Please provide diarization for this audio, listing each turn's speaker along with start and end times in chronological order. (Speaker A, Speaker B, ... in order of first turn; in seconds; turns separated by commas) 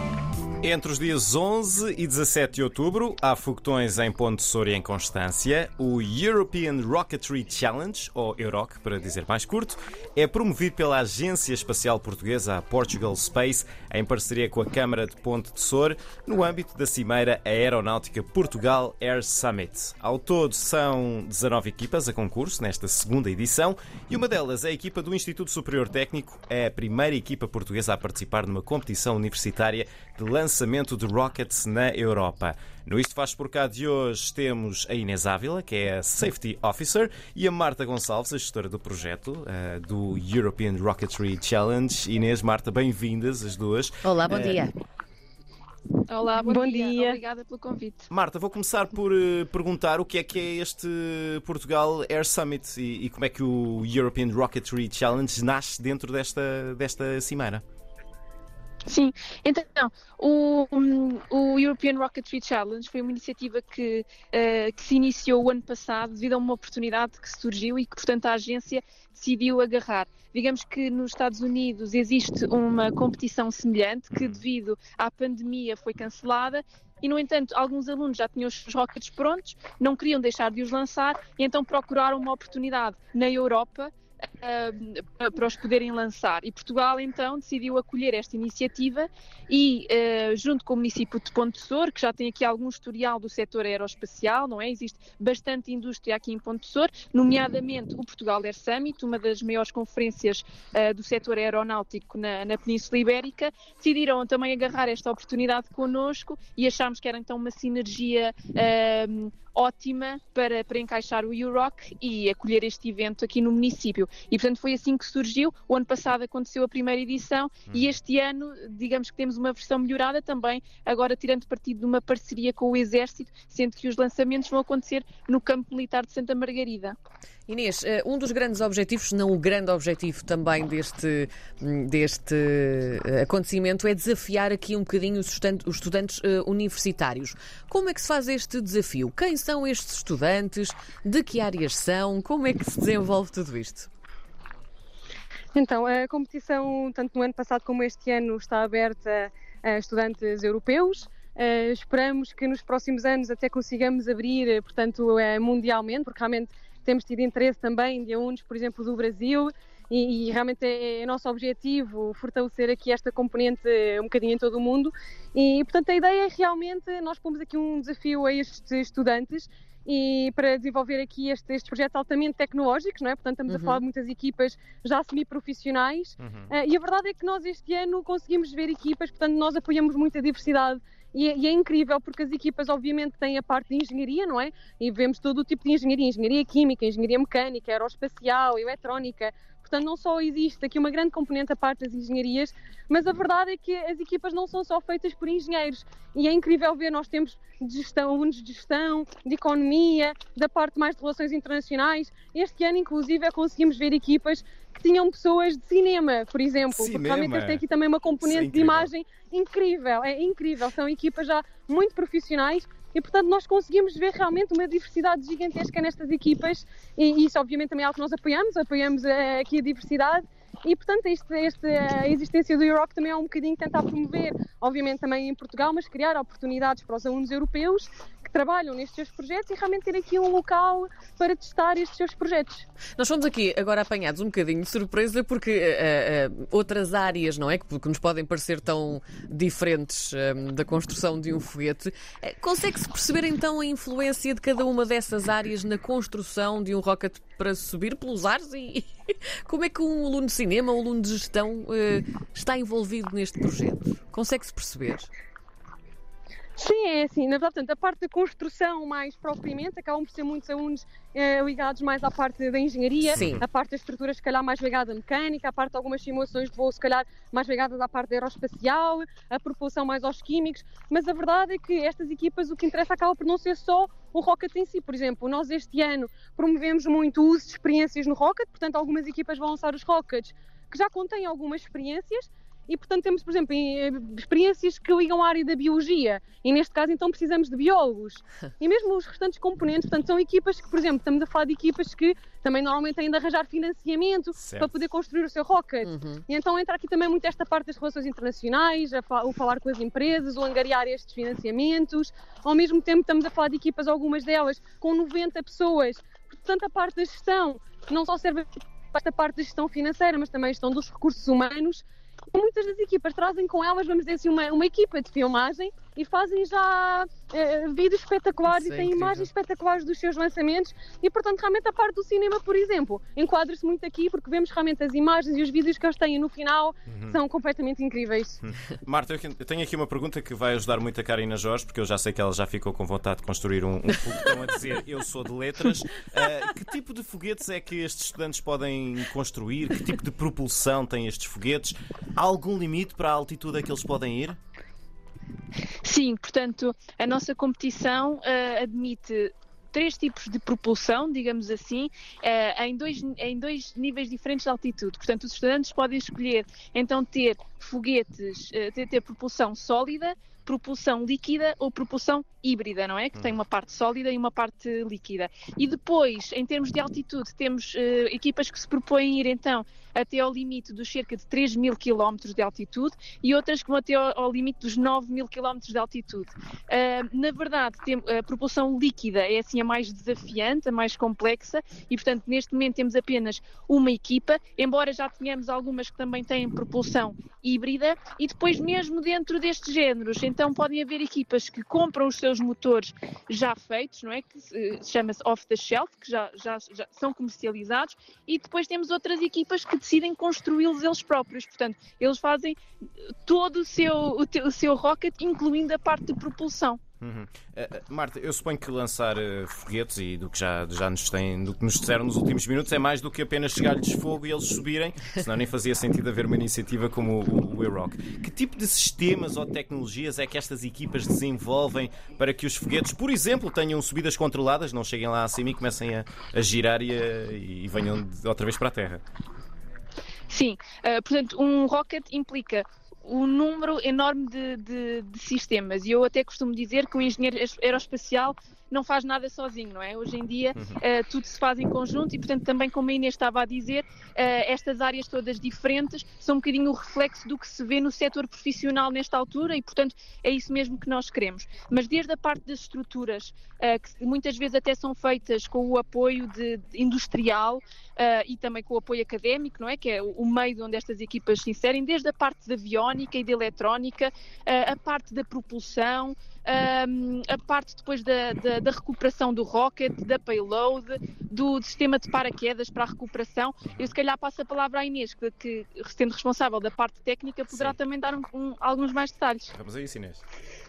Speaker A: 0.6-44.7, Speaker B: 44.0-44.7, Speaker C: 46.1-48.1, Speaker D: 46.4-47.2, Speaker A: 48.1-57.6, Speaker C: 58.9-127.0, Speaker A: 74.1-74.4, Speaker A: 117.7-118.0, Speaker B: 127.5-143.9, Speaker D: 145.5-232.7, Speaker B: 173.5-173.8, Speaker A: 176.2-176.5, Speaker A: 206.7-207.6, Speaker A: 208.2-208.9, Speaker B: 233.0-255.1, Speaker D: 256.6-328.4, Speaker B: 263.1-263.4, Speaker A: 263.1-263.4, Speaker A: 294.4-294.7, Speaker B: 295.8-296.2, Speaker B: 318.5-319.3, Speaker A: 326.9-327.2, Speaker A: 328.4-344.4, Speaker C: 345.8-402.6, Speaker C: 403.2-406.8, Speaker A: 407.0-429.0, Speaker C: 430.3-479.5, Speaker A: 473.7-473.9, Speaker A: 477.5-477.8, Speaker A: 479.5-480.2